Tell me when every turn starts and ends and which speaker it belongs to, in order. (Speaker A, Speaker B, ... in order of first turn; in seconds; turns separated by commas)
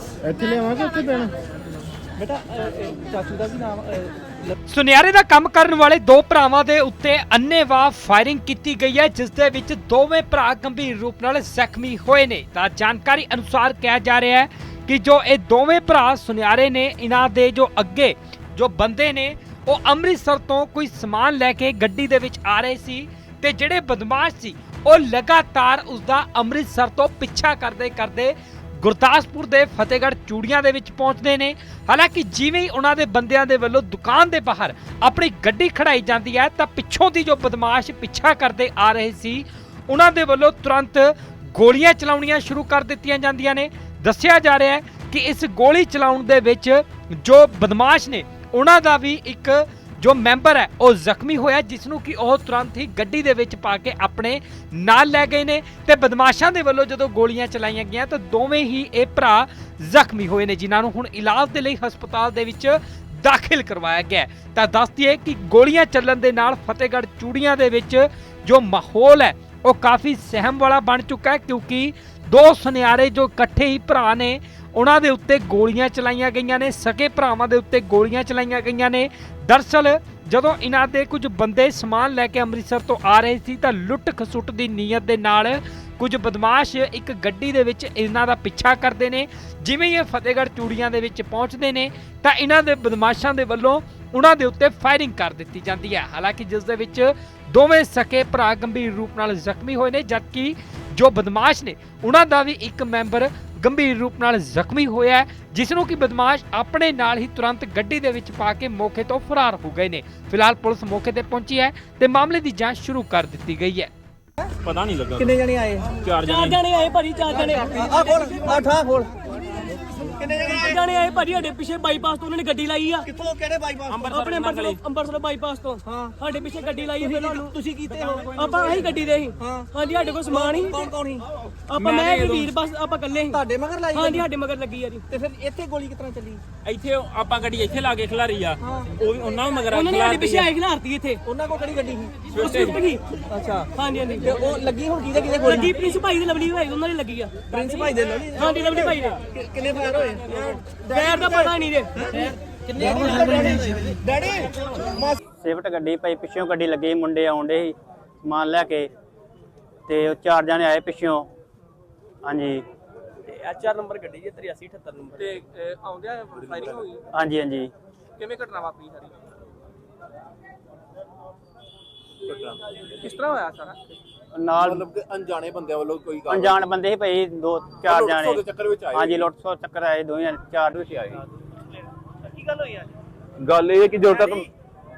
Speaker A: 0.3-1.3, Speaker A: 2.2-4.5, Speaker B: 4.7-113.9, Speaker C: 114.6-115.4, Speaker A: 115.2-115.9, Speaker C: 115.9-116.6, Speaker D: 116.2-118.8, Speaker A: 117.7-119.1, Speaker A: 120.1-120.7, Speaker D: 120.4-123.1, Speaker A: 123.1-123.9, Speaker C: 123.9-124.8, Speaker D: 124.1-127.6, Speaker A: 125.8-126.1, Speaker A: 127.0-129.7, Speaker D: 128.2-130.9, Speaker A: 130.2-131.2, Speaker D: 131.7-133.4, Speaker C: 131.8-132.5, Speaker A: 133.3-134.3, Speaker D: 133.9-135.0, Speaker A: 135.1-136.4, Speaker C: 136.6-140.5, Speaker A: 138.6-138.9, Speaker D: 139.7-141.2, Speaker A: 141.2-142.2, Speaker C: 142.3-142.8, Speaker D: 142.3-143.0, Speaker A: 143.3-145.9, Speaker D: 143.8-144.6, Speaker D: 145.4-149.2, Speaker A: 147.5-151.5, Speaker D: 150.9-153.7, Speaker A: 152.8-155.2, Speaker E: 155.4-158.9, Speaker E: 159.9-161.3, Speaker E: 162.2-162.6, Speaker F: 163.3-166.8, Speaker G: 166.5-166.7, Speaker E: 167.1-167.7, Speaker F: 168.2-169.1, Speaker F: 173.2-173.7, Speaker E: 174.3-174.8, Speaker G: 174.5-176.7, Speaker E: 176.3-180.8, Speaker G: 177.8-179.3, Speaker G: 180.8-181.2, Speaker G: 183.4-184.5